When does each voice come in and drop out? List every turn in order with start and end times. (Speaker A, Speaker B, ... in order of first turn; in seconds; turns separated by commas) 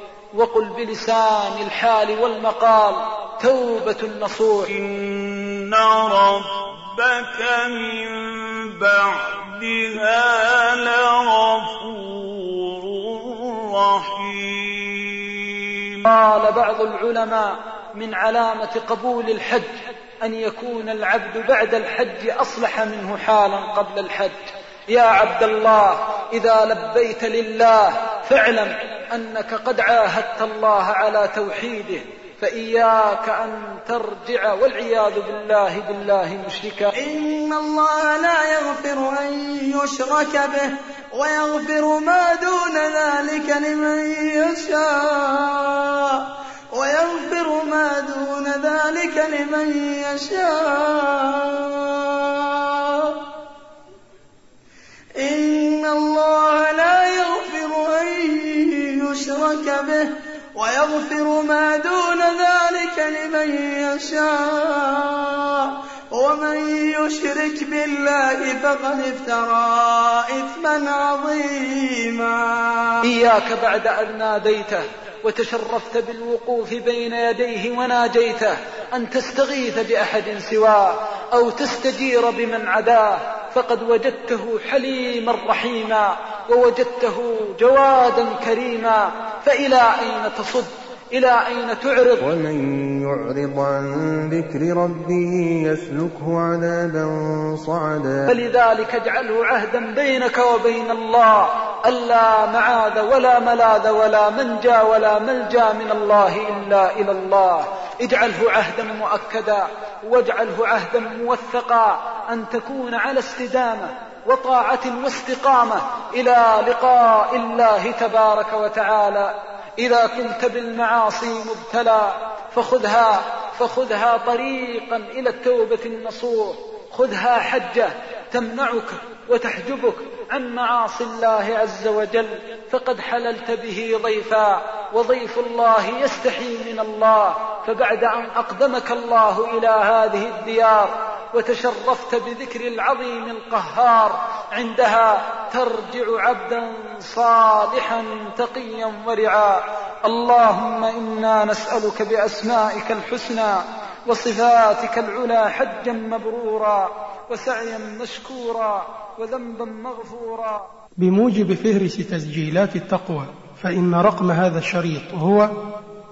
Speaker A: 0.3-4.7, Speaker B: 4.9-7.7, Speaker B: 10.1-11.8, Speaker B: 12.8-13.1, Speaker B: 13.9-14.3, Speaker A: 16.0-36.9, Speaker C: 36.9-53.2, Speaker C: 55.2-73.0, Speaker A: 73.0-92.2, Speaker D: 92.2-98.3, Speaker A: 98.3-160.7, Speaker E: 161.0-165.6